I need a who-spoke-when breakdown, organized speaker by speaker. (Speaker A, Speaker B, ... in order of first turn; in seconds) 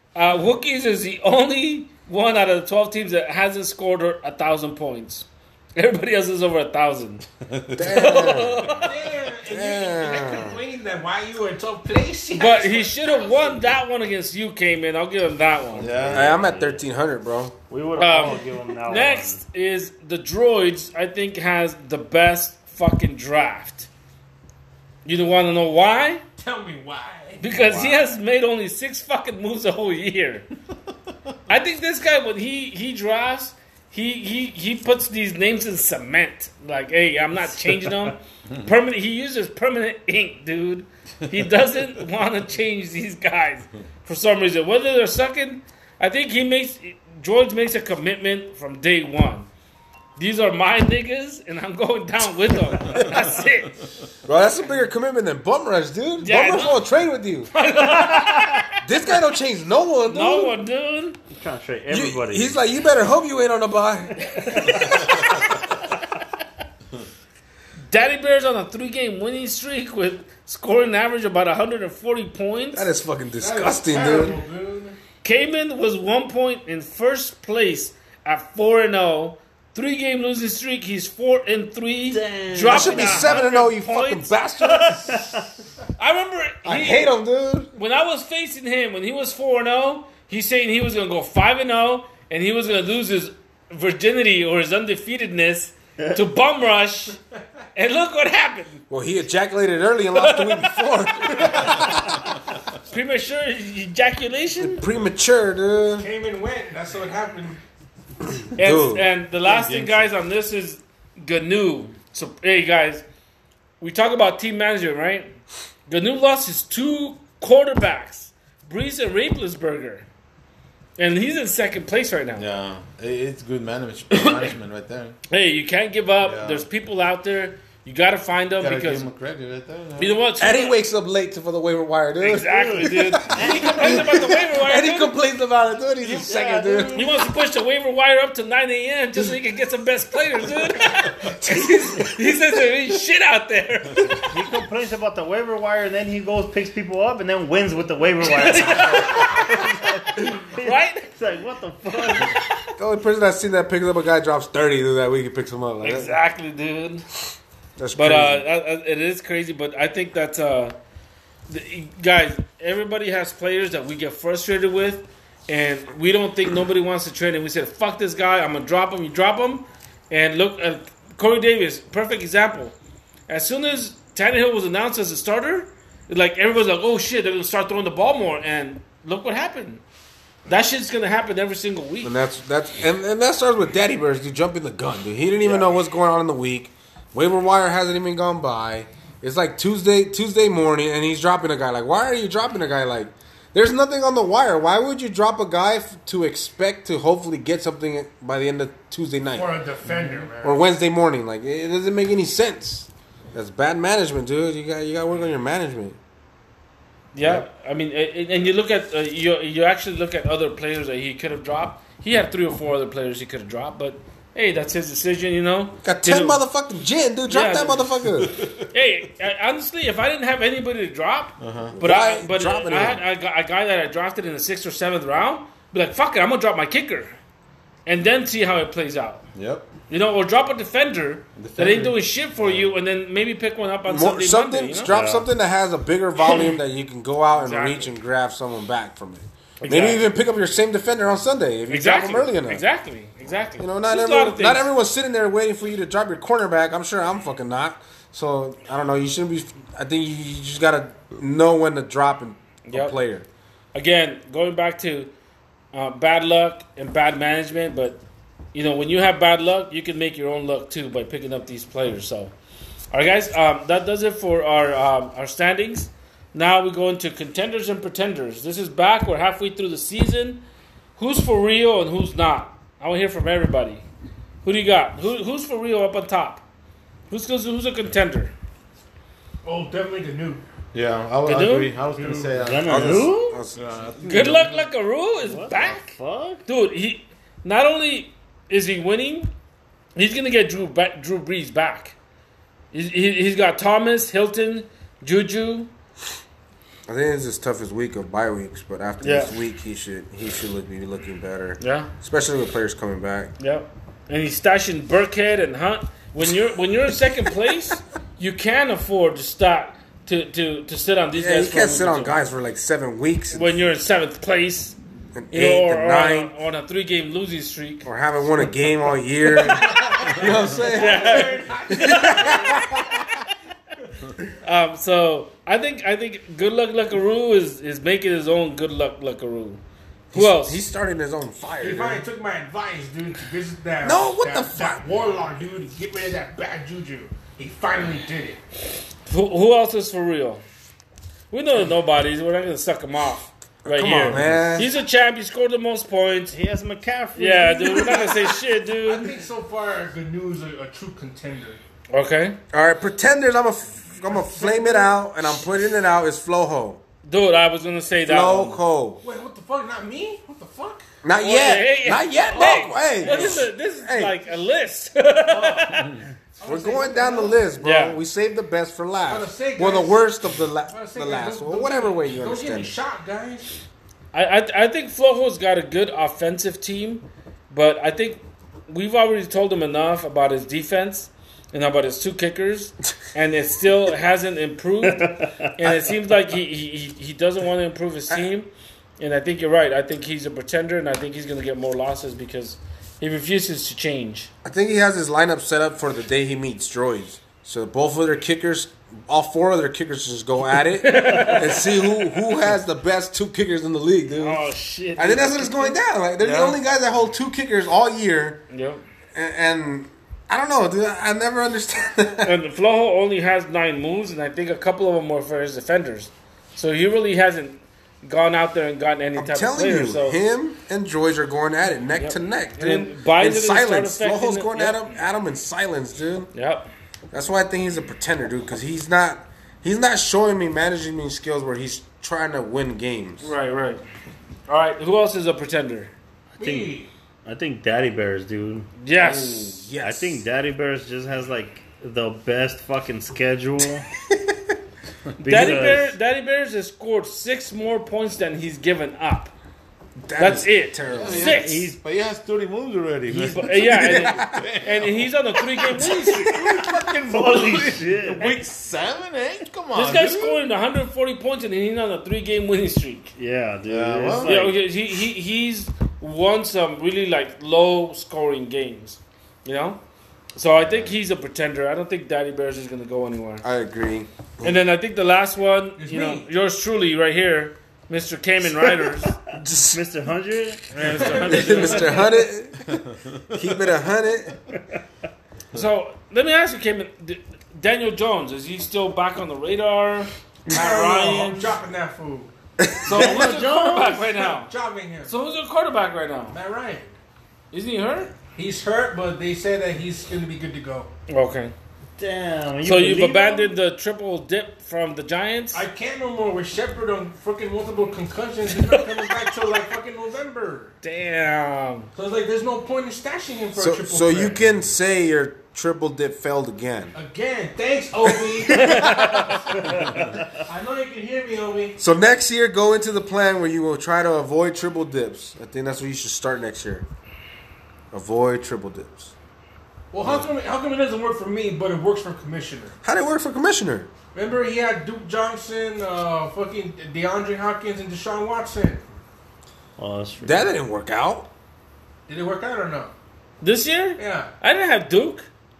Speaker A: 0.1-7.2, 7.8-8.9, 12.3-16.2, 17.9-23.9, 25.0-26.2, 27.4-30.5, 31.5-49.5, 50.1-53.8, 56.2-56.8, 57.5-58.8, 60.1-61.2, 64.3-65.2, 67.9-72.9, 75.2-85.3, 86.0-87.1, 87.7-97.2, 97.7-98.8, 100.1-102.1, 102.8-104.8, 108.5-113.0, 113.8-120.0, 121.0-122.4, 124.1-124.4, 125.3-129.1, 130.0-130.8, 132.2-135.1, 136.9-144.2, 148.2-149.5, 150.6-151.1, 155.8-157.0, 157.9-160.7, 161.5-172.7, 173.3-179.8, 180.5-182.1, 207.1-216.4, 217.3-217.9, 218.7-227.2, 227.8-229.2, 229.9-234.9, 237.3-237.9, 239.6-240.0, 241.7-244.7, 252.7-253.0, 253.7-255.1, 255.7-258.0, 258.5-262.3, 262.9-270.4, 271.0-273.8, 274.4-276.4, 277.1-278.3, 281.2-281.7, 284.0-285.9, 286.4-289.3, 289.9-291.9, 292.7-295.7, 299.0-299.4, 301.6-301.9, 303.4-312.2, 313.3-314.8, 315.3-317.9, 320.7-322.4, 324.4-329.6, 330.1-330.6, 339.1-340.4, 341.3-346.4, 347.1-349.1, 351.9-352.4, 357.0-358.6, 361.1-365.9, 367.6-368.0, 374.1-394.3, 400.8-401.7, 404.1-405.8, 408.5-408.8, 412.2-420.2, 421.9-424.9, 426.3-426.7, 433.2-433.8, 434.5-435.9, 438.8-439.7, 445.2-449.3, 450.2-451.6, 453.1-456.3, 459.7-463.1, 464.2-469.8, 470.3-473.4, 474.4-479.1, 480.7-482.1, 485.5-491.6, 492.8-494.5, 495.1-496.4, 497.5-498.1, 501.1-501.5, 502.6-505.6, 510.8-511.9, 518.5-519.4, 543.4-545.3
Speaker B: 7.5-8.9, 15.8-16.4, 109.5-110.1, 122.4-125.2, 126.2-126.7, 128.6-130.2, 221.4-221.8, 229.3-229.7, 231.3-232.7, 280.7-284.6, 344.1-344.4, 406.2-406.6, 445.3-445.6, 450.9-455.1, 456.0-460.4, 463.7-464.4
Speaker C: 7.7-8.7, 9.5-10.6, 16.1-17.5, 54.2-57.5, 58.8-60.5, 61.9-65.3, 72.7-74.4, 82.7-85.2, 86.6-87.7, 98.9-101.9, 104.6-106.1, 108.6-109.1, 130.4-137.1, 141.4-141.8, 152.8-156.2, 157.8-158.4, 182.0-199.5, 200.4-206.0, 215.8-218.3, 221.7-223.0, 233.9-242.6, 243.6-253.2, 282.6-283.6, 296.9-303.3, 311.1-313.6, 315.1-316.3, 317.8-323.0, 330.1-332.1, 333.8-334.8, 343.6-344.7, 352.5-356.8, 358.0-359.0, 361.0-364.1, 366.4-372.7, 394.4-404.4, 404.9-408.4, 409.1-412.3, 419.1-426.3, 427.1-433.3, 438.9-440.2, 450.0-451.4, 453.6-454.4, 455.7-456.6, 473.4-474.6, 479.3-479.8, 481.3-482.8, 483.3-484.3, 492.6-493.2, 513.5-516.9, 518.1-519.1, 521.8-526.9, 527.9-529.1, 532.8-533.9, 540.2-541.3
Speaker D: 8.8-13.7, 26.4-27.4, 73.4-75.0, 105.9-107.6, 199.3-200.6, 279.4-280.4, 281.9-282.3, 319.8-322.8, 331.6-338.4, 348.8-351.6, 354.1-355.0, 359.0-360.8, 362.4-363.4, 365.3-365.8, 366.4-367.4, 369.1-370.1, 370.7-373.5, 436.4-436.9, 475.8-476.3, 480.8-482.0, 490.5-492.3, 492.9-495.1, 496.3-496.9, 498.3-500.9, 505.5-510.7, 511.9-514.4, 516.9-521.8, 529.9-532.8, 534.1-538.8, 542.1-542.9, 544.0-544.3
Speaker E: 16.1-16.7, 17.7-19.4, 61.3-62.6, 82.1-83.4, 85.1-85.4, 132.5-134.1, 136.0-137.2, 144.2-152.4, 234.9-235.3, 282.3-283.4, 285.2-286.4, 346.3-348.4, 384.8-385.5, 436.4-438.7, 439.8-443.8, 445.2-445.9, 451.3-451.8, 457.1-458.3, 463.2-464.6, 479.7-481.2, 492.9-494.0, 502.0-503.5, 539.8-540.5